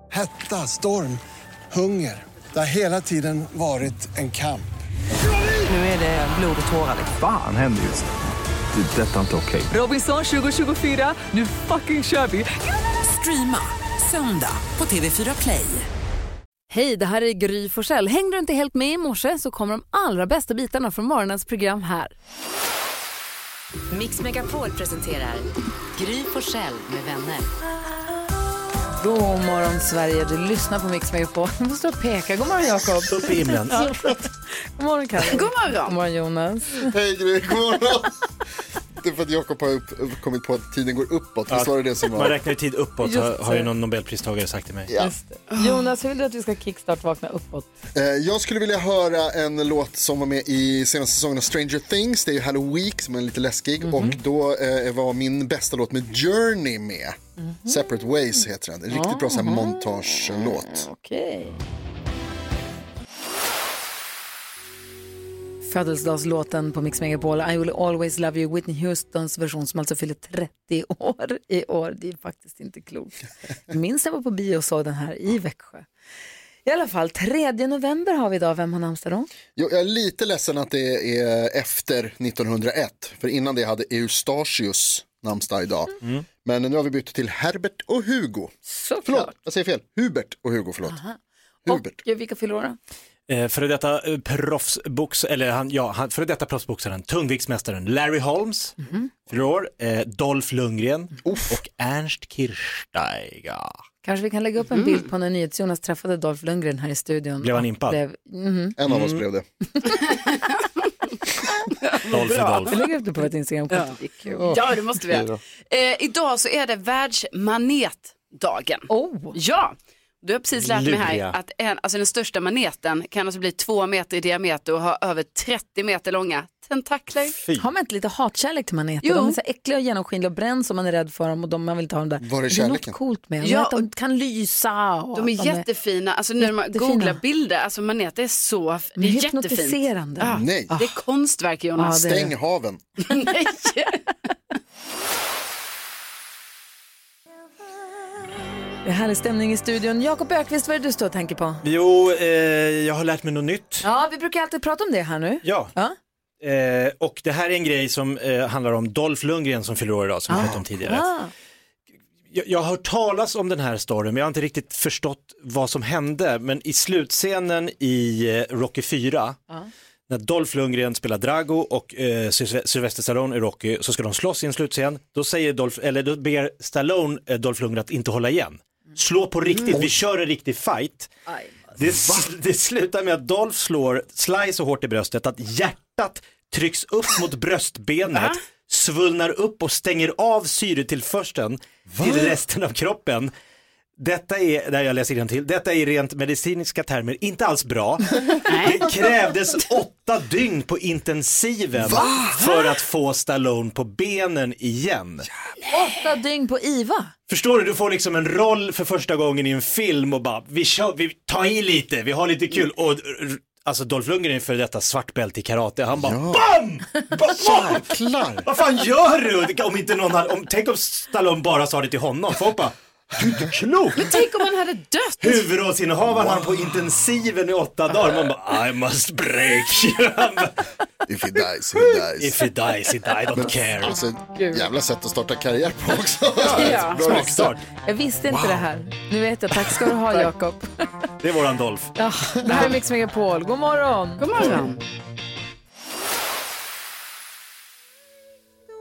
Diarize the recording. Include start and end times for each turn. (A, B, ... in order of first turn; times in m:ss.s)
0:00.1-0:04.7 A
0:05.6-0:07.1 B
0:07.1-0:08.1 C
0:08.7-0:09.7 C
0:09.7-0:15.9 B
0:16.7-0:22.1 D
0:23.9-0:27.5 E
0:29.0-0:34.2 D
0:33.1-0:33.9 F
0:34.8-0:36.9 D
0:35.2-0:35.9 G
0:36.8-0:38.2 H
0:39.0-0:42.4 H
0:41.5-0:44.9 F
0:43.0-0:43.7 D
0:44.9-0:45.1 H
0:45.0-0:47.7 D
0:45.5-0:45.8 G
0:47.9-1:00.9 H
0:53.8-0:54.1 D
0:57.4-0:57.8 D
0:58.9-1:01.6 D
1:05.6-1:15.8 D
1:16.6-1:19.3 D
1:19.6-1:28.5 H
1:28.6-1:29.3 D
1:29.0-1:31.0 H
1:30.9-1:32.8 D
1:31.6-1:32.0 H
1:33.3-1:38.8 F
1:38.8-1:39.1 D
1:39.3-1:43.8 F
1:41.2-1:41.6 H
1:44.0-1:48.8 D
1:44.7-1:45.0 G
1:47.4-1:48.0 F
1:48.8-1:49.4 H
1:48.9-1:49.2 F
1:49.8-1:50.1 D
1:52.1-1:52.8 F
1:52.1-1:52.7 G
1:52.7-1:54.5 D
1:54.5-2:07.3 G
1:58.9-1:59.3 D
2:00.6-2:01.4 F
2:07.4-2:07.6 F
2:07.6-2:15.6 D
2:09.0-2:09.4 G
2:12.2-2:13.0 H
2:13.4-2:13.8 G
2:15.1-2:22.0 G
2:16.4-2:17.2 D
2:19.0-2:20.9 D
2:20.3-2:20.7 H
2:21.8-2:22.3 D
2:21.9-2:22.8 H
2:23.1-2:24.0 G
2:28.8-2:31.6 D
2:31.6-2:33.8 F
2:33.8-2:35.9 D
2:35.4-2:35.7 F
2:36.4-2:41.1 F
2:40.3-2:41.3 D
2:40.3-2:40.6 H
2:42.3-2:49.4 F
2:50.1-3:01.1 F
3:01.8-3:13.3 F
3:08.1-3:08.4 G
3:12.0-3:12.3 H
3:14.0-3:25.3 F
3:18.5-3:18.8 G
3:21.8-3:22.2 H
3:25.7-3:27.1 D
3:27.3-3:37.8 F
3:36.0-3:36.5 H
3:37.3-3:38.5 H
3:38.4-3:44.2 F
3:44.0-3:45.4 G
3:45.2-3:50.5 F
3:46.2-3:46.5 H
3:51.1-3:52.5 H
3:51.8-3:54.0 F
3:53.3-3:57.6 H
3:54.4-3:54.6 D
3:56.4-3:57.6 F
3:56.5-3:57.0 G
3:57.8-4:00.9 D
4:01.2-4:01.9 F
4:02.0-4:04.6 D
4:04.2-4:04.8 G